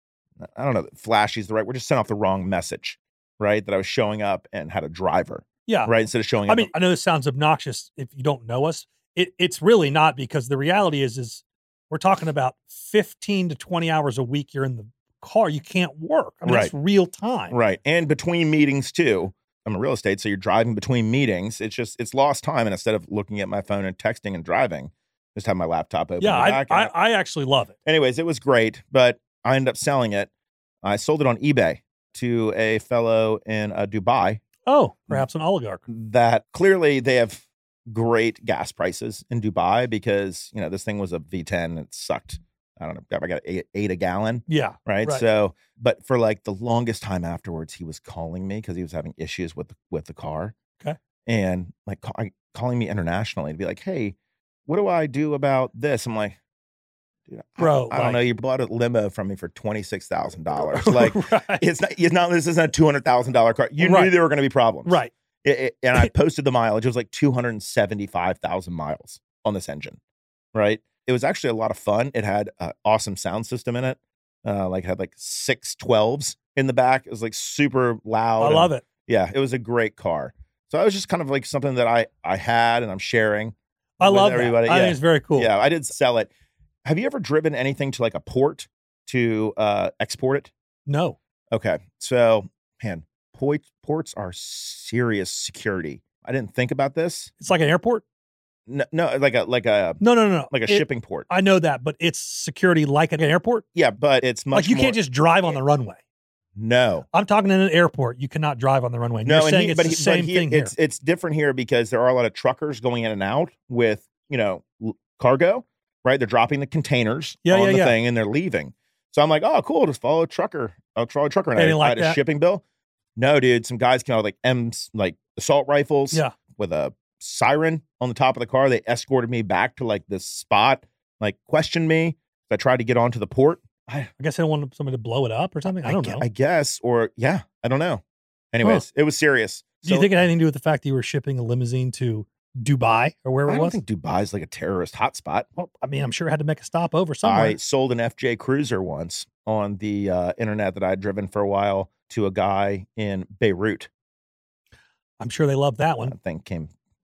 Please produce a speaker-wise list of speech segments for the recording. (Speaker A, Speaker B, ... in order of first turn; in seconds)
Speaker A: 0.4-6.7, 16.4-16.7, 17.5-26.9, 27.9-30.3, 30.8-34.4, 35.9-50.5, 51.2-54.1, 54.7-56.4, 57.3-70.0, 70.5-86.3, 86.8-90.5, 91.5-97.3, 98.7-101.3, 103.7-105.5, 106.5-107.1, 109.2-122.6, 123.2-134.1, 135.8-138.0, 138.5-140.1, 143.5-145.5, 147.2-153.9, 156.0-156.7
Speaker B: 5.7-5.9, 6.5-17.6, 26.2-27.7, 34.6-35.8, 44.5-45.2, 57.6-58.2, 60.7-61.6, 63.8-64.1, 64.8-65.1, 78.4-78.8, 84.0-85.5, 90.9-91.2, 97.4-98.0, 100.0-103.6, 104.5-106.0, 107.1-110.7, 117.4-117.9, 121.5-122.2, 134.2-136.2, 139.8-143.8, 145.6-147.6, 155.2-156.1